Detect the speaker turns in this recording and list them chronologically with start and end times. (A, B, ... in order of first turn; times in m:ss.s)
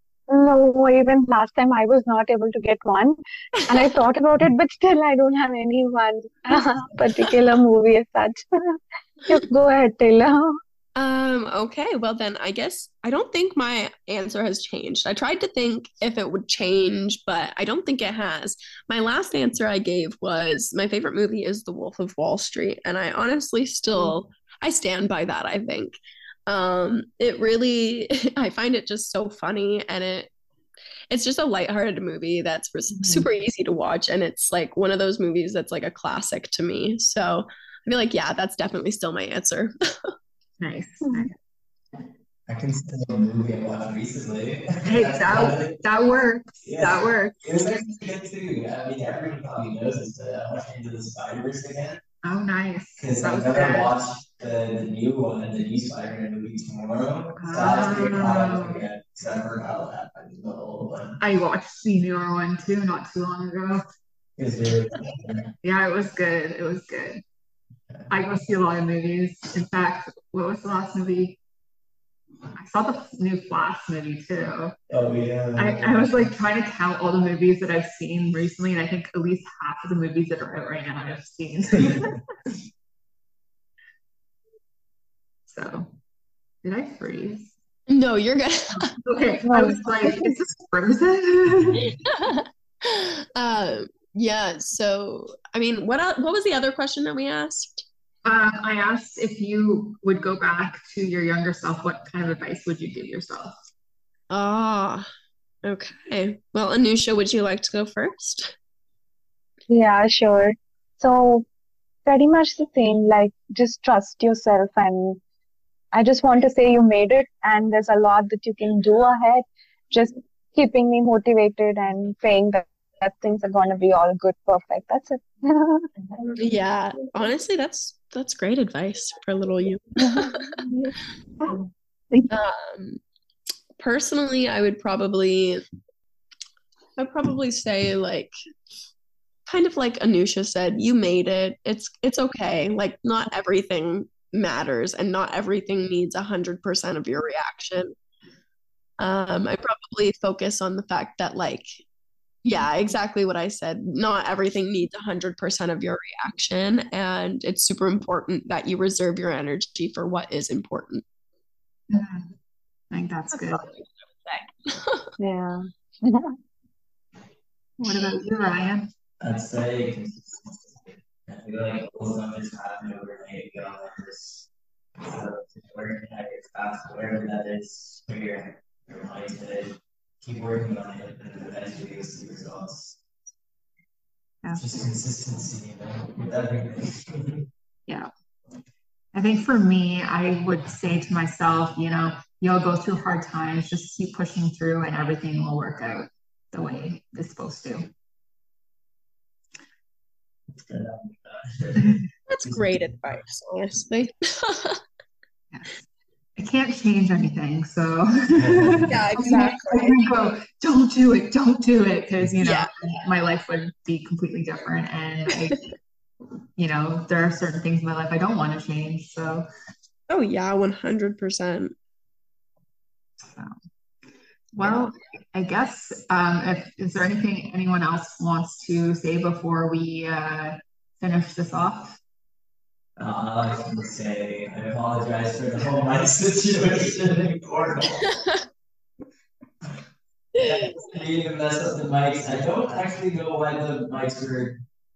0:00.3-0:10.5 A
0:11.0-0:30.3 B
0:31.1-0:39.7 B
0:40.6-0:41.3 C
0:42.5-0:45.8 D
0:44.8-0:47.4 C
0:46.6-0:52.0 D
0:52.2-0:53.9 C
0:53.0-1:01.2 D
0:57.4-0:58.9 C
1:01.2-1:03.8 C
1:04.4-1:05.5 D
1:05.6-1:07.2 C
1:08.1-1:11.4 C
1:12.5-1:14.8 C
1:14.9-1:16.3 D
1:15.6-1:22.2 C
1:25.4-1:25.9 C
1:26.6-1:27.5 C
1:27.9-1:28.9 B
1:28.8-1:31.8 C
1:29.4-1:30.3 A
1:31.6-1:31.9 D
1:31.8-1:37.8 B
1:38.2-1:43.5 C
1:44.3-1:45.0 B
1:45.6-1:48.5 B
1:49.7-1:51.4 A
1:52.0-1:55.2 A
1:55.9-2:06.2 A
2:06.4-2:10.4 B
2:10.0-2:10.9 A
2:12.3-2:13.0 B
2:13.8-2:15.6 B
2:17.0-2:18.3 B
2:19.5-2:27.9 B
2:29.0-2:31.8 B
2:32.4-2:41.0 B
2:41.9-2:42.3 C
2:42.9-2:43.7 C
2:43.3-2:45.1 B
2:45.2-2:46.3 A
2:47.8-2:48.8 C
2:49.2-2:54.4 D
2:55.0-3:03.0 D
3:04.5-3:07.4 D
3:09.1-3:17.9 C
3:20.6-3:22.9 D
3:22.3-3:24.8 B
3:25.5-3:25.8 C
3:26.4-3:35.6 C
3:28.4-3:28.9 D
3:28.9-3:30.0 B
3:32.4-3:32.7 B
3:36.6-3:39.4 C
3:40.1-3:41.7 B
3:44.5-3:52.0 C
3:44.6-3:44.8 B
3:53.0-3:58.1 D
4:00.3-4:04.6 D